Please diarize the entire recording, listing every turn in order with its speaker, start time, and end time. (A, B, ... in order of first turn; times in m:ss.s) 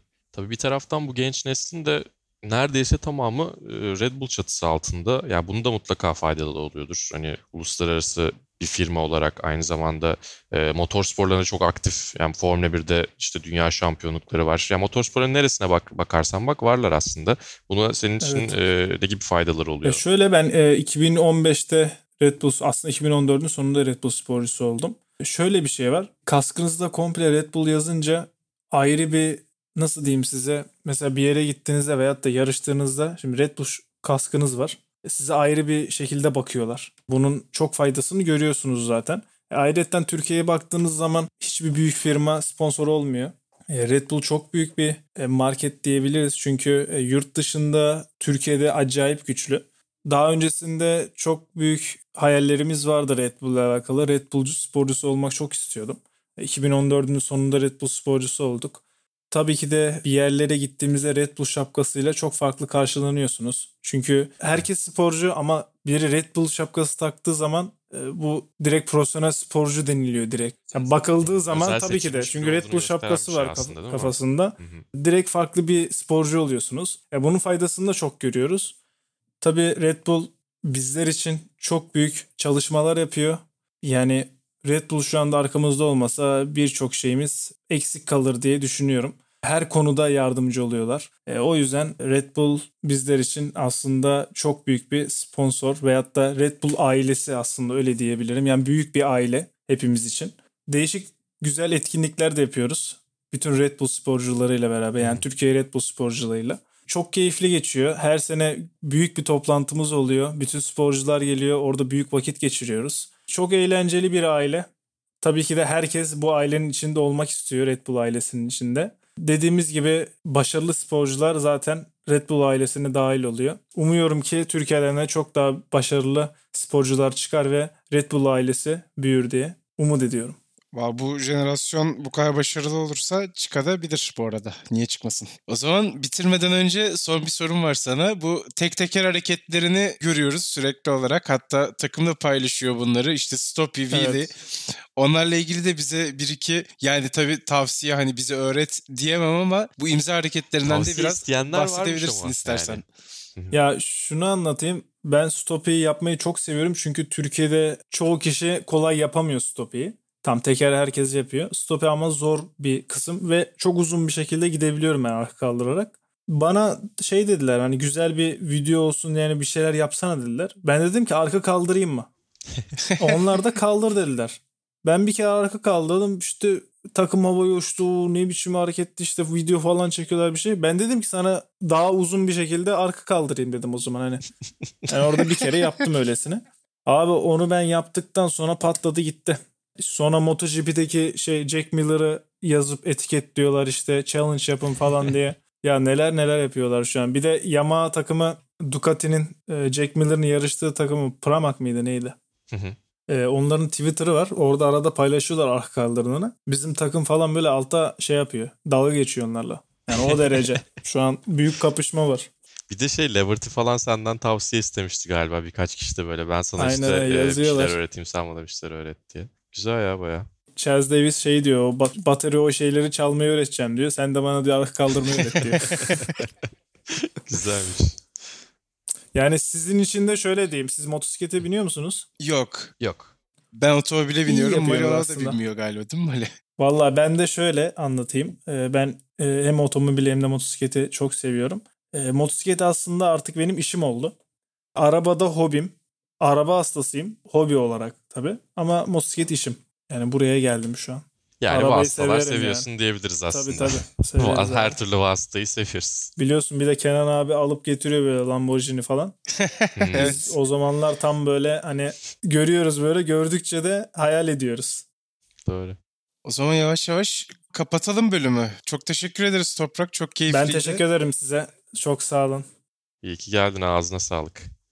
0:00.3-0:20.0 A
0:18.2-0:18.6 B
0:19.8-1:18.7 B
1:11.2-1:14.8 A
1:19.4-1:54.7 B
1:55.2-2:10.4 B
2:10.7-2:32.8 C
2:23.9-2:24.3 B
2:30.6-2:32.8 A
2:33.5-2:52.1 B
2:53.0-3:04.2 B
3:04.8-3:05.4 A
3:04.9-3:22.2 B
3:22.5-3:22.8 A
3:23.1-3:32.3 B
3:29.9-3:30.6 A
3:32.7-3:40.3 A
3:36.6-3:37.8 B
3:40.6-3:46.1 B
3:45.6-3:48.0 A
3:49.1-3:52.0 B
3:52.2-3:52.7 C
3:52.8-3:53.1 A
3:53.5-3:56.3 C
3:54.2-3:55.4 B
3:56.6-4:04.1 B
4:04.8-4:12.7 B
4:11.4-4:16.1 A
4:13.3-4:14.8 B
4:16.2-4:19.1 B
4:19.4-4:20.2 C
4:19.8-4:20.2 A
4:20.0-4:24.8 B
4:25.4-4:25.8 A
4:26.2-4:30.8 C
4:30.3-4:32.4 B
4:33.0-4:34.5 A